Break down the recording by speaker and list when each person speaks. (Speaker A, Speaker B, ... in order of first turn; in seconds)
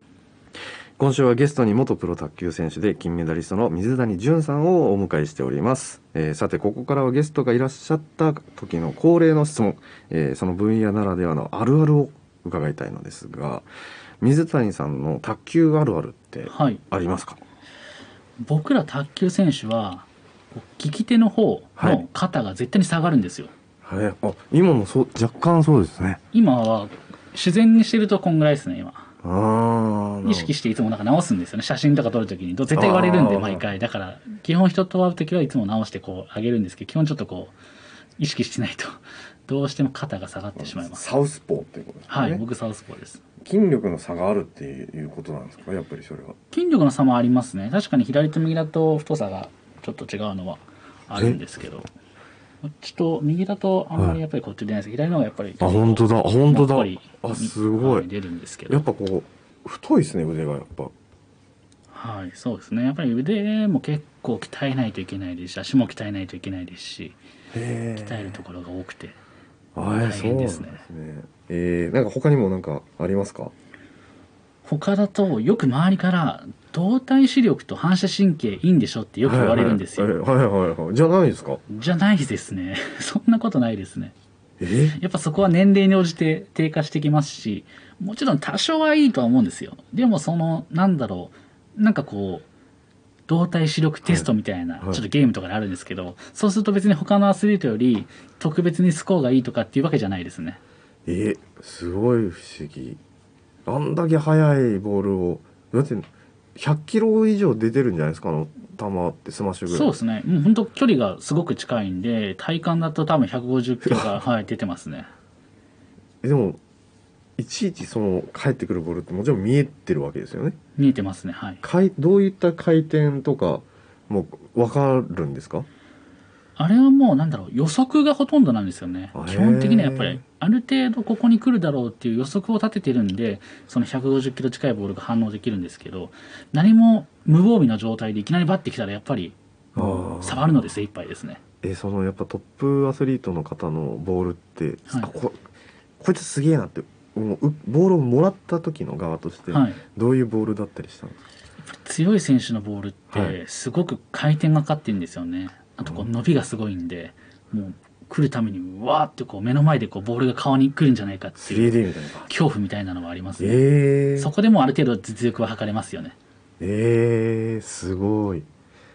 Speaker A: 1.0-13.6, 14.2-17.4, 21.8-22.0, 23.8-26.2, 29.2-30.5, 32.7-33.7, 40.5-42.4, 43.4-46.4, 53.9-54.2, 55.6-58.1, 58.7-60.9, 67.5-68.4, 69.8-73.5, 79.2-81.6, 84.6-85.0, 101.0-103.0, 103.7-109.9, 113.8-114.1, 116.2-116.6, 117.4-120.6, 121.6-125.7, 129.1-130.2, 139.8-140.6, 141.6-145.4, 146.0-151.2, 153.1-153.4, 155.8-156.1, 161.4-162.3, 163.4-164.3, 166.6-168.5
Speaker B: 16.5-16.8, 18.4-23.5, 26.3-29.1, 30.2-37.5, 38.2-41.0, 42.1-43.2, 46.5-51.9, 52.6-58.8, 61.9-67.2, 68.0-69.2, 69.9-70.8, 74.6-80.1, 81.7-84.1, 85.0-92.5, 93.3-100.6, 109.7-115.1, 120.8-121.6, 126.5-141.4, 144.9-145.1, 149.5-149.8, 151.6-166.2